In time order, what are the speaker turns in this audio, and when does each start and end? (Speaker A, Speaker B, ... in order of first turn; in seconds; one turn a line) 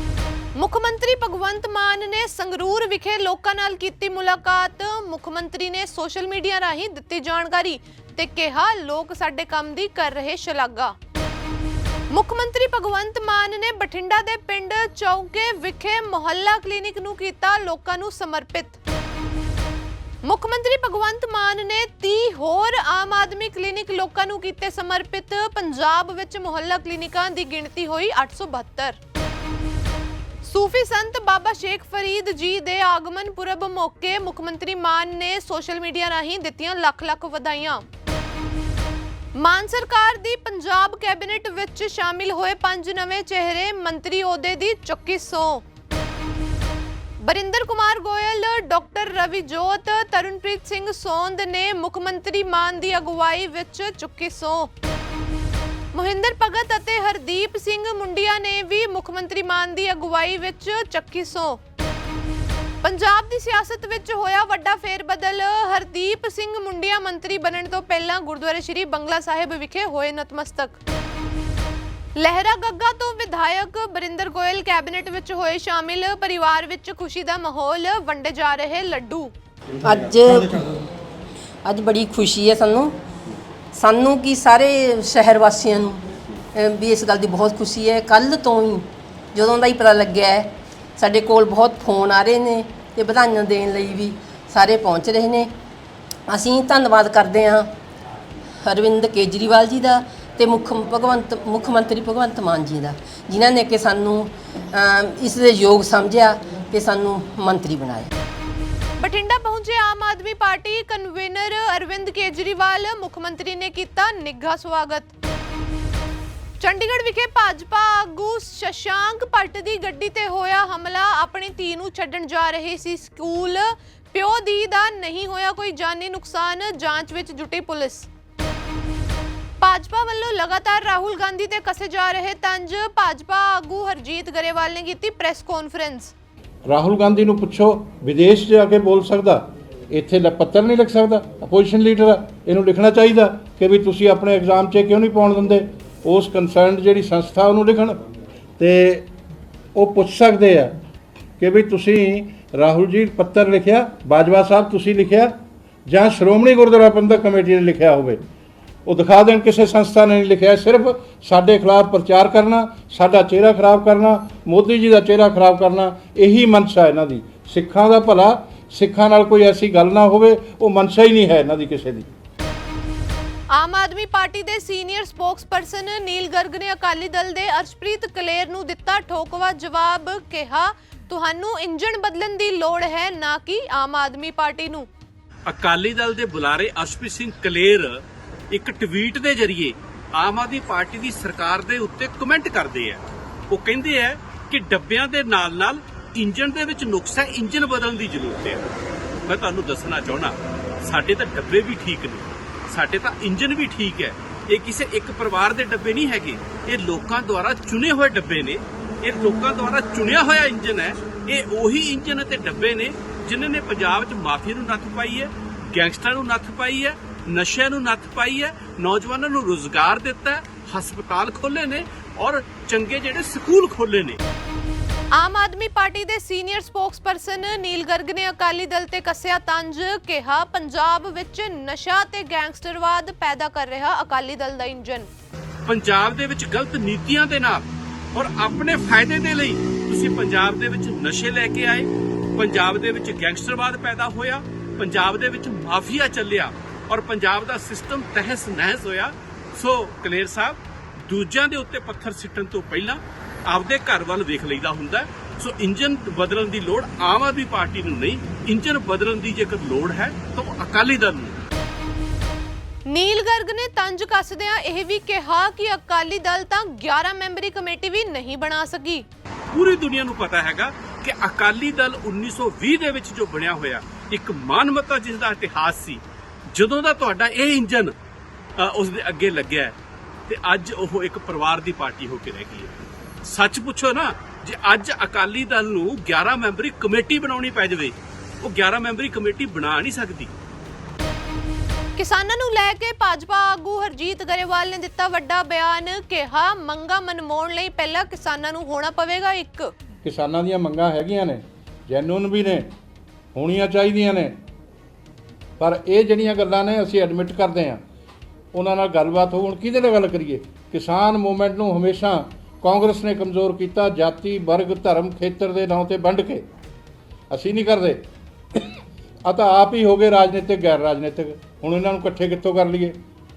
Speaker A: 0.6-10.9
Speaker A: 12.1-18.8
Speaker A: 20.2-29.0
Speaker A: 30.4-37.8
Speaker A: 39.4-45.6
Speaker A: 47.2-54.7
Speaker A: 55.9-61.6
Speaker A: 62.8-70.8
Speaker A: 72.2-79.3
Speaker B: 79.8-80.8
Speaker B: 81.7-82.9
Speaker B: 83.7-95.5
Speaker B: 96.3-97.7
Speaker B: 98.6-108.1
Speaker A: 109.0-115.1
Speaker A: 116.6-128.1
Speaker A: 129.6-136.1
Speaker C: 136.7-148.0
Speaker C: 148.6-149.1
Speaker C: 149.8-150.8
Speaker C: 151.4-155.3
Speaker C: 155.8-158.2
Speaker C: 158.8-172.1
Speaker A: 173.5-184.9
Speaker D: 185.6-187.8
Speaker D: 188.5-189.7
Speaker D: 190.2-193.0
Speaker D: 193.5-198.6
Speaker D: 199.3-200.3
Speaker D: 200.8-224.2
Speaker A: 225.1-235.1
Speaker D: 235.7-237.6
Speaker D: 238.2-241.8
Speaker D: 242.4-250.5
Speaker D: 251.1-253.0
Speaker D: 253.5-261.3
Speaker A: 262.9-269.0
Speaker D: 269.5-276.0
Speaker D: 276.6-277.9
Speaker D: 278.6-279.7
Speaker D: 280.3-282.7
Speaker D: 283.3-287.9
Speaker D: 288.5-290.3
Speaker A: 292.0-299.7
Speaker C: 300.0-302.7
Speaker C: 303.3-304.4
Speaker C: 305.6-307.8
Speaker C: 308.5-316.4
Speaker C: 317.3-318.0
Speaker C: 319.2-322.9